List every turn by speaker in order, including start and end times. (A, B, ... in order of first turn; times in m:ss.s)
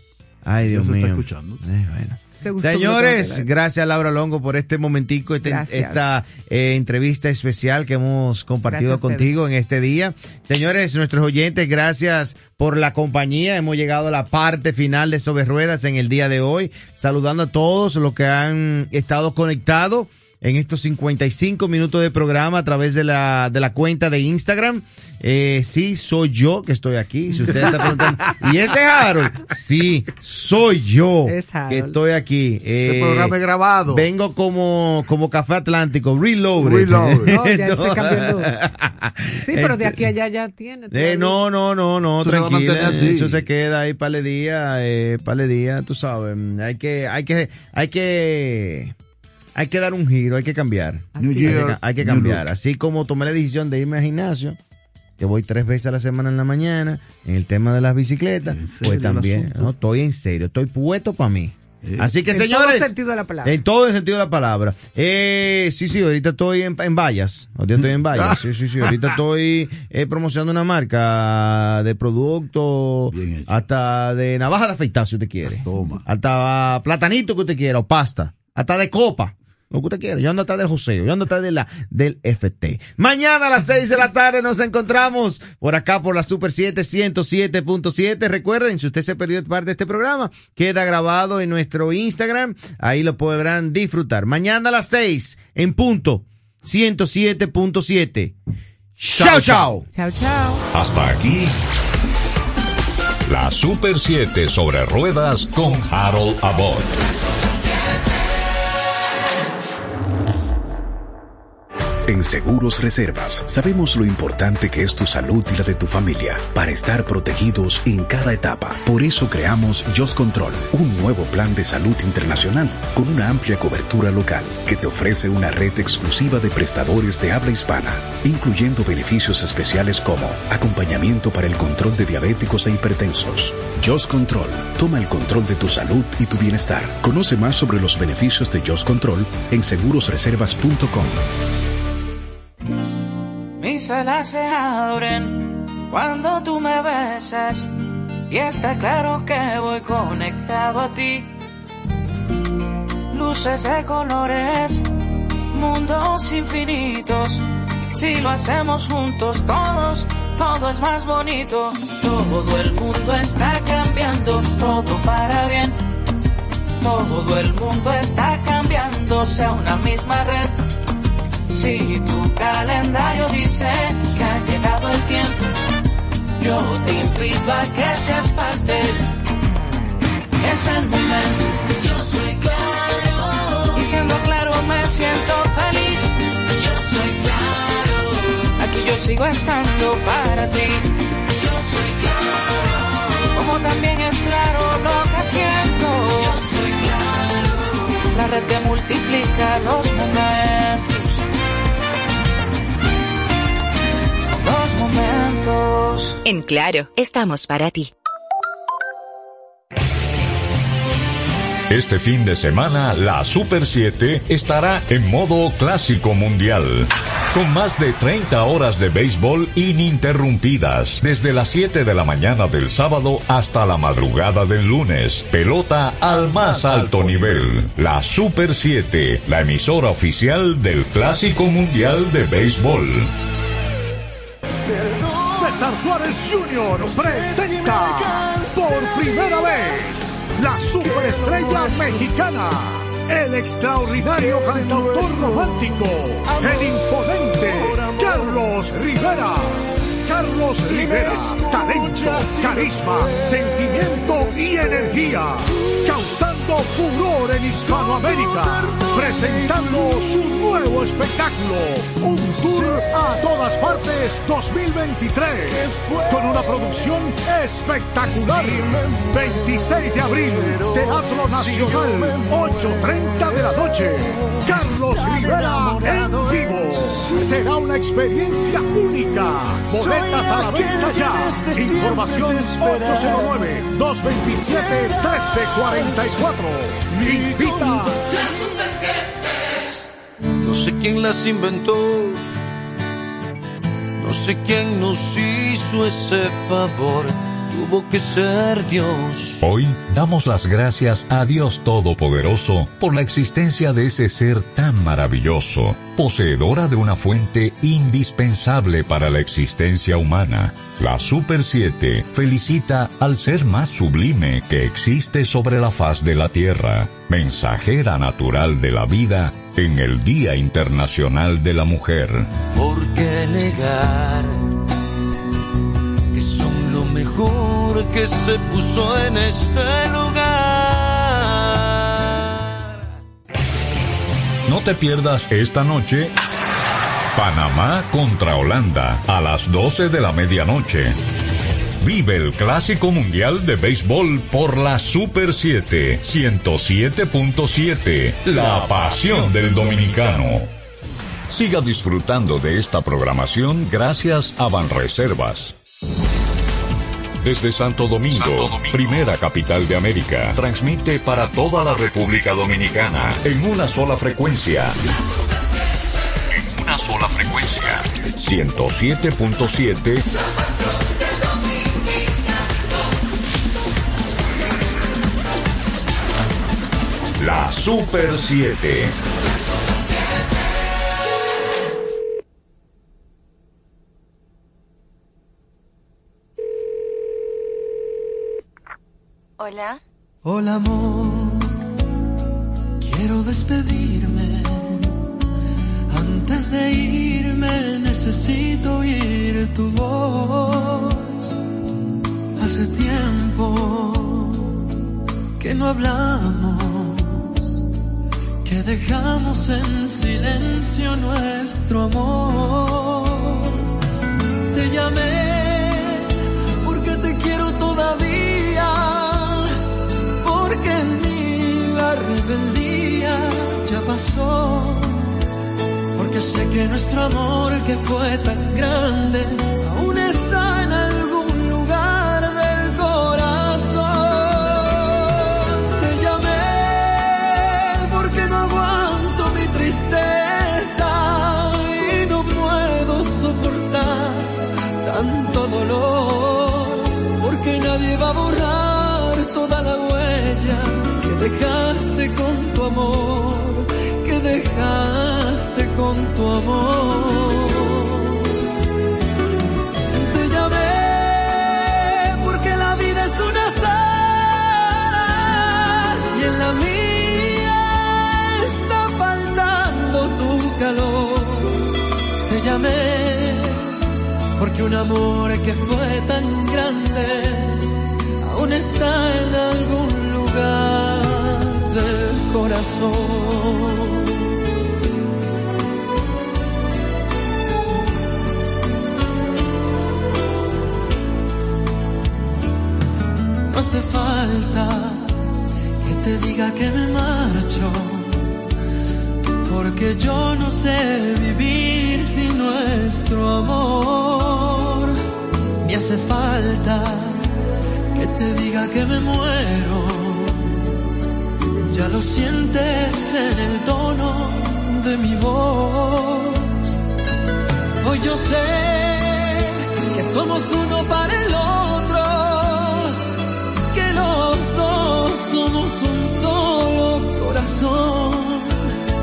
0:00.4-0:33.4 A
0:00.6-0:01.6 B
0:02.4-0:03.5 C
0:05.4-0:06.1 C
0:08.6-0:09.3 C
0:27.3-0:27.8 C
0:31.2-0:32.0 C
0:32.8-0:34.1 B
0:33.9-0:40.1 A
0:36.6-0:37.3 B
0:37.3-0:38.5 C
0:39.5-0:41.4 C
0:40.9-0:48.9 A
0:42.2-0:43.4 B
0:49.6-0:54.6 A
0:51.2-0:51.7 C
0:51.2-0:52.5 B
0:55.2-1:02.9 A
0:58.4-0:59.7 B
1:01.8-1:02.1 B
1:02.3-1:03.6 C
1:03.4-1:38.3 A
1:08.1-1:09.2 B
1:13.1-1:13.6 B
1:15.5-1:16.0 B
1:39.0-1:39.8 A
1:39.0-1:39.8 B
1:39.9-1:40.6 C
1:40.7-1:41.5 D
1:43.2-1:46.9 D
1:52.1-2:21.2 E
2:23.6-2:27.7 F
2:28.3-2:31.3 F
2:33.1-2:34.8 F
2:35.5-2:37.4 F
2:37.9-2:45.7 F
2:46.8-2:50.5 F
2:51.5-2:55.5 F
2:56.4-2:59.0 F
3:00.4-3:12.7 F
3:13.2-3:21.2 F
3:24.3-3:26.2 F
3:26.2-3:27.9 G
3:31.7-3:53.1 D
3:54.8-3:55.2 H
3:55.2-4:48.0 I
4:04.3-4:05.5 J
4:06.3-4:06.7 J
4:07.4-4:08.2 J
4:10.7-4:15.0 J
4:18.0-4:20.0 J
4:25.8-4:26.6 J
4:28.6-4:29.0 J
4:30.5-4:33.2 J
4:34.2-4:36.4 J
4:39.8-4:43.2 J
4:47.0-4:48.7 J
4:50.3-4:52.2 J
4:54.0-4:59.4 J
4:59.4-5:22.3 D
5:22.5-5:24.4 J
5:26.1-5:32.2 J
5:34.4-5:36.1 D
5:37.1-5:41.0 D
5:41.8-5:50.5 D
5:51.3-5:55.5 D
5:57.2-6:04.8 D
6:06.3-6:10.0 D
6:17.2-6:18.9 D
6:29.4-6:29.8 G
6:30.2-6:31.5 H
6:32.8-6:35.0 H
6:35.9-6:41.3 H
6:42.4-6:44.6 H
6:45.4-6:47.6 H
6:48.4-6:53.6 H
6:54.5-6:59.5 H
7:00.2-7:05.2 H
7:05.9-7:38.3 H
7:39.9-7:51.7 H
7:52.2-7:53.7 H
7:54.4-8:04.2 H
8:13.5-8:15.2 H
8:15.8-8:18.3 H
8:19.4-8:25.0 H
8:25.6-8:27.3 H
8:27.9-8:30.6 H
8:31.7-8:36.8 H
8:37.8-8:43.0 H
8:43.7-8:48.6 H